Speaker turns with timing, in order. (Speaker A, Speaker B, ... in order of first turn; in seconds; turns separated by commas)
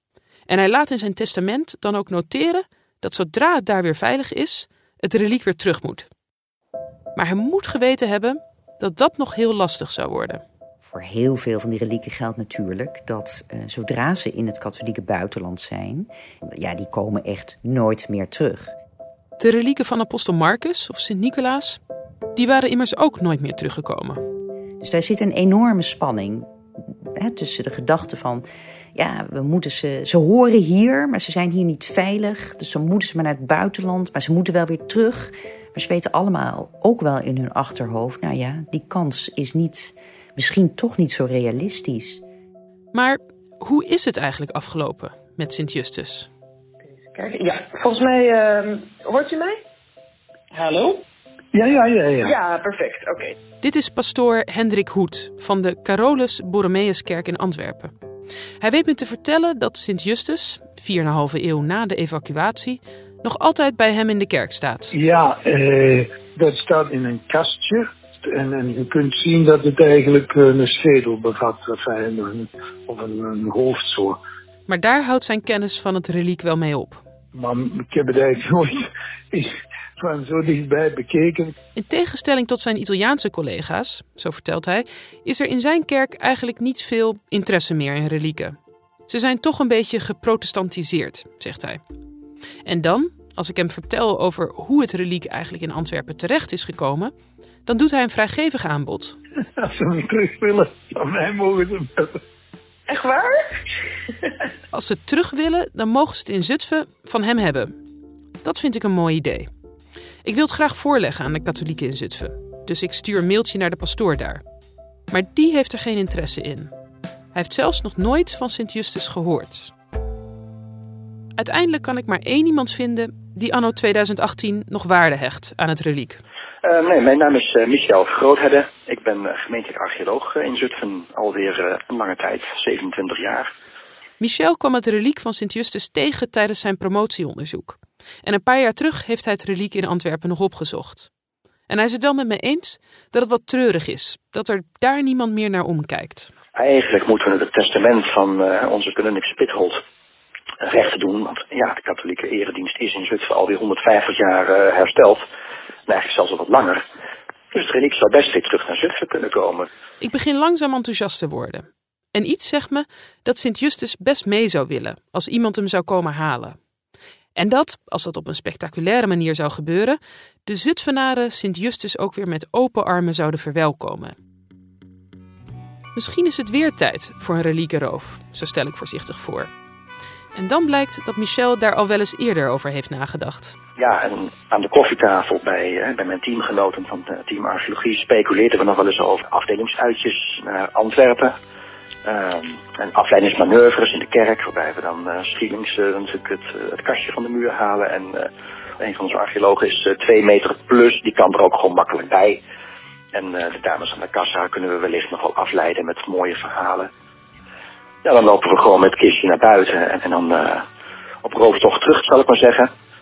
Speaker A: 0.5-6.1, Speaker A: 7.2-10.4, Speaker B: 10.8-18.7, Speaker A: 19.4-21.8, Speaker A: 22.3-24.2, Speaker B: 24.8-26.5, Speaker B: 27.1-42.2, Speaker A: 42.9-46.3, Speaker C: 46.8-49.6, Speaker C: 50.5-51.0, Speaker D: 51.5-52.4, Speaker C: 52.2-53.4, Speaker A: 53.6-57.9, Speaker A: 58.6-64.9, Speaker D: 64.9-74.2, Speaker A: 74.7-77.0, Speaker D: 77.3-81.5, Speaker A: 81.8-88.5, Speaker A: 89.1-91.8, Speaker A: 92.7-97.1, Speaker A: 97.7-99.2, Speaker D: 99.6-102.2, Speaker C: 102.9-103.6, Speaker A: 104.7-107.7, Speaker A: 108.4-109.5, Speaker A: 110.2-114.4, Speaker A: 115.1-116.7, Speaker A: 117.3-119.7, Speaker A: 121.4-126.2, Speaker E: 126.6-133.5, Speaker A: 134.2-141.1, Speaker A: 141.7-146.3, Speaker E: 146.6-149.8, Speaker E: 150.6-155.2, Speaker E: 155.9-156.8, Speaker E: 157.5-159.7, Speaker A: 160.0-166.6, Speaker A: 167.3-174.2, Speaker A: 175.9-179.5, Speaker A: 180.3-183.6, Speaker E: 183.8-191.3, Speaker E: 192.0-202.4, Speaker E: 203.1-206.9, Speaker E: 208.0-210.6, Speaker E: 211.2-212.7